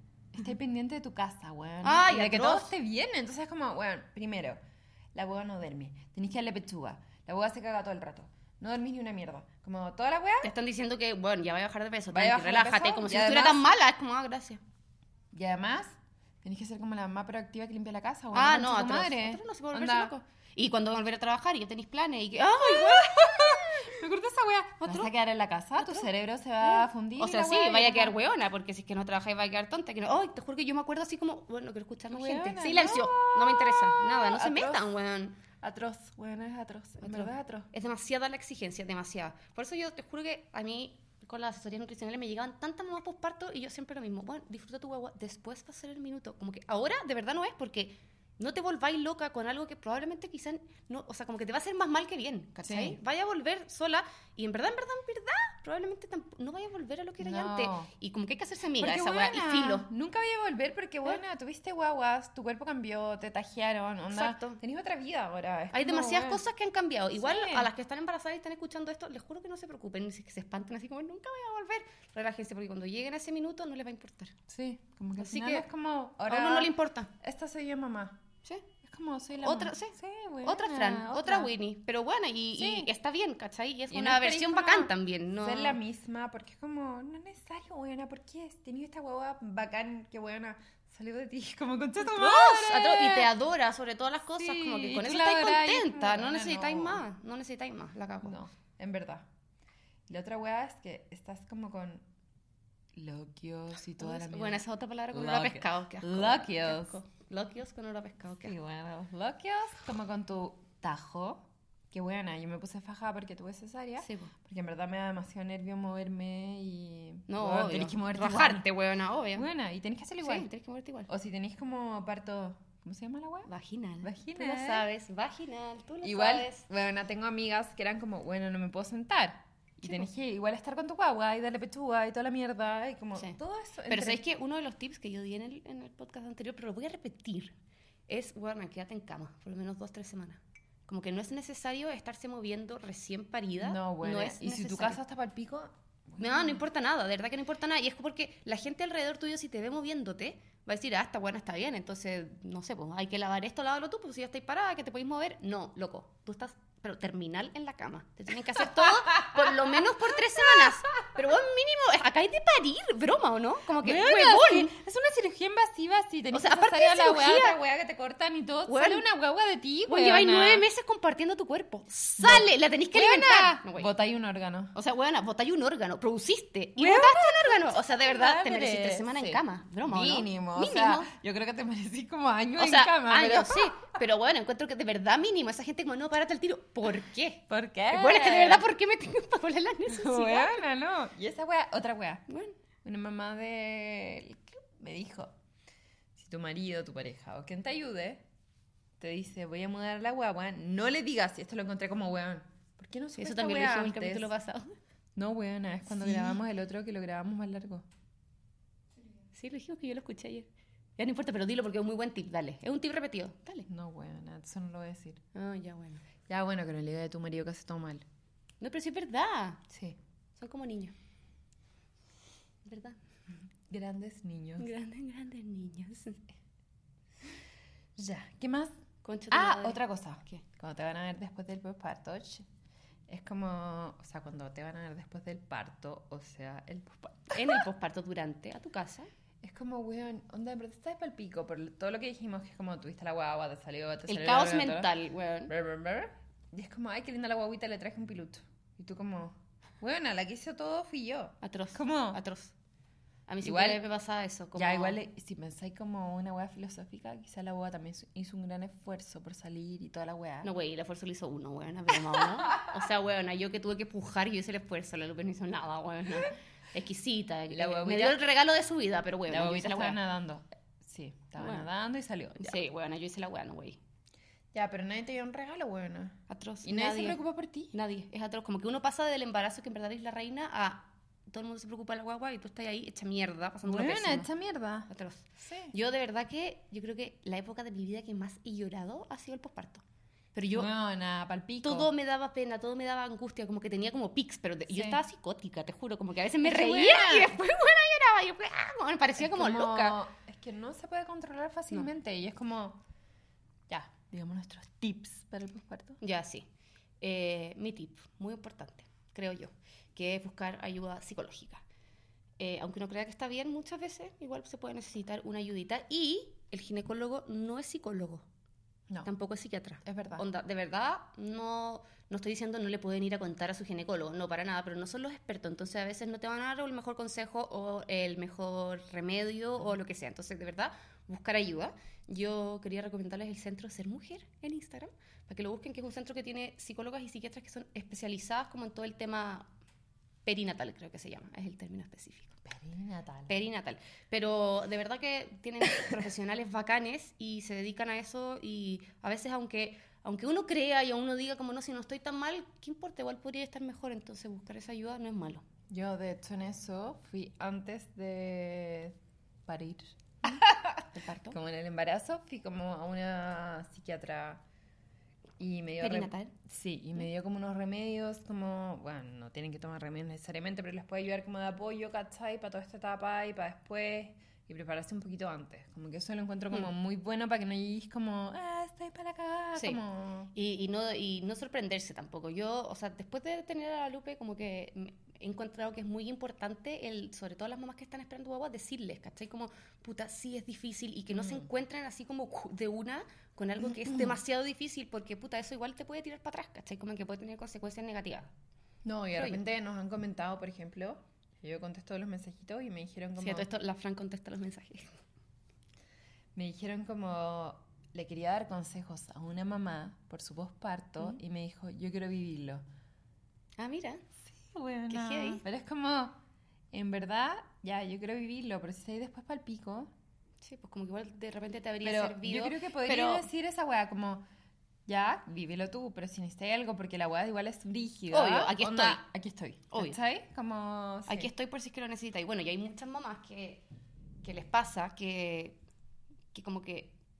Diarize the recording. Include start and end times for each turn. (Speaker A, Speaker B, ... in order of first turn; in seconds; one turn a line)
Speaker A: 0.3-4.6
Speaker B: 1.8-2.7
Speaker A: 5.1-10.5
Speaker B: 10.4-14.6
Speaker A: 12.1-13.6
Speaker A: 15.3-20.1
Speaker B: 18.3-24.0
Speaker A: 22.5-28.1
Speaker B: 24.8-25.1
Speaker B: 25.8-26.1
Speaker B: 26.6-35.4
Speaker A: 32.1-34.8
Speaker A: 35.6-37.7
Speaker B: 37.0-59.9
Speaker A: 52.6-53.0
Speaker A: 57.2-57.9
Speaker A: 58.8-66.4
Speaker B: 64.1-64.6
Speaker B: 65.7-74.3
Speaker A: 67.2-67.7
Speaker A: 74.5-78.2
Speaker B: 75.2-75.7
Speaker B: 76.2-77.1
Speaker A: 78.8-81.5
Speaker B: 79.4-85.8
Speaker A: 82.6-82.9
Speaker A: 83.9-93.3
Speaker B: 92.0-98.4
Speaker A: 94.4-97.0
Speaker A: 98.2-99.3
Speaker A: 100.1-102.0
Speaker A: 102.9-106.9
Speaker B: 104.0-108.5
Speaker A: 108.4-118.7
Speaker B: 114.0-114.3
Speaker B: 117.3-119.5
Speaker A: 119.3-120.5
Speaker B: 120.2-121.1
Speaker A: 121.1-123.5
Speaker B: 123.5-126.6
Speaker A: 124.0-124.9
Speaker A: 126.0-134.2
Speaker B: 133.9-137.5
Speaker B: 138.1-145.0
Speaker A: 143.6-146.6
Speaker B: 146.2-164.7
Speaker A: 158.8-159.8
Speaker A: 163.8-170.7
Speaker B: 166.3-167.6
Speaker B: 168.7-169.0
Speaker B: 169.9-173.9
Speaker A: 172.2-174.7
Speaker B: 174.7-181.1
Speaker A: 176.8-183.9
Speaker B: 182.6-190.6
Speaker A: 187.5-188.7
Speaker A: 189.9-192.2
Speaker B: 192.3-192.6
Speaker A: 192.8-195.3
Speaker A: 196.2-198.2
Speaker A: 199.0-204.3
Speaker B: 203.2-204.8
Speaker A: 205.2-207.8
Speaker B: 206.0-206.4
Speaker B: 209.3-213.7
Speaker A: 213.7-215.2
Speaker B: 215.3-216.0
Speaker A: 216.3-218.0
Speaker B: 218.6-219.6
Speaker A: 219.7-220.0
Speaker B: 220.4-220.9
Speaker B: 222.6-223.0
Speaker A: 223.7-224.7
Speaker B: 224.6-226.2
Speaker A: 227.9-228.7
Speaker B: 229.0-230.4
Speaker A: 229.3-232.5
Speaker A: 233.1-237.6
Speaker B: 237.3-239.1
Speaker A: 239.4-244.9
Speaker B: 244.1-245.5
Speaker A: 245.5-252.2
Speaker B: 251.4-252.5
Speaker B: 253.3-255.0
Speaker A: 253.4-253.8
Speaker A: 254.5-260.5
Speaker B: 260.4-270.0
Speaker A: 267.5-268.2
Speaker A: 269.3-272.6
Speaker B: 271.4-271.7
Speaker B: 272.4-273.8
Speaker A: 274.5-277.7
Speaker B: 276.3-277.2
Speaker B: 277.7-284.3
Speaker A: 283.6-284.9
Speaker B: 284.9-290.7
Speaker A: 285.4-285.7
Speaker A: 290.5-291.9
Speaker B: 291.6-300.0
Speaker A: 294.7-295.0
Speaker A: 296.4-297.4
Speaker A: 299.2-302.8
Speaker A: 303.7-306.0
Speaker B: 306.0-306.5
Speaker B: 307.0-311.6
Speaker B: 312.4-318.2
Speaker B: 319.0-339.5
Speaker A: 319.8-320.2
Speaker B: 340.2-342.4
Speaker A: 342.4-343.3
Speaker B: 343.3-355.4
Speaker A: 355.7-364.4
Speaker B: 360.9-361.4
Speaker A: 365.4-380.3
Speaker B: 365.8-366.3
Speaker B: 379.5-379.8
Speaker B: 380.3-398.3
Speaker A: 391.1-391.5
Speaker A: 393.6-394.2
Speaker A: 398.8-403.5
Speaker B: 399.1-399.4
Speaker B: 403.2-404.9
Speaker A: 406.3-412.6
Speaker B: 413.6-414.0
Speaker A: 414.3-416.2
Speaker B: 414.9-415.4
Speaker A: 416.7-419.9
Speaker B: 420.4-423.2
Speaker A: 421.8-424.2
Speaker A: 424.9-431.3
Speaker B: 428.1-429.0
Speaker B: 429.7-429.9
Speaker B: 431.1-433.6
Speaker B: 434.2-435.6
Speaker B: 436.3-436.9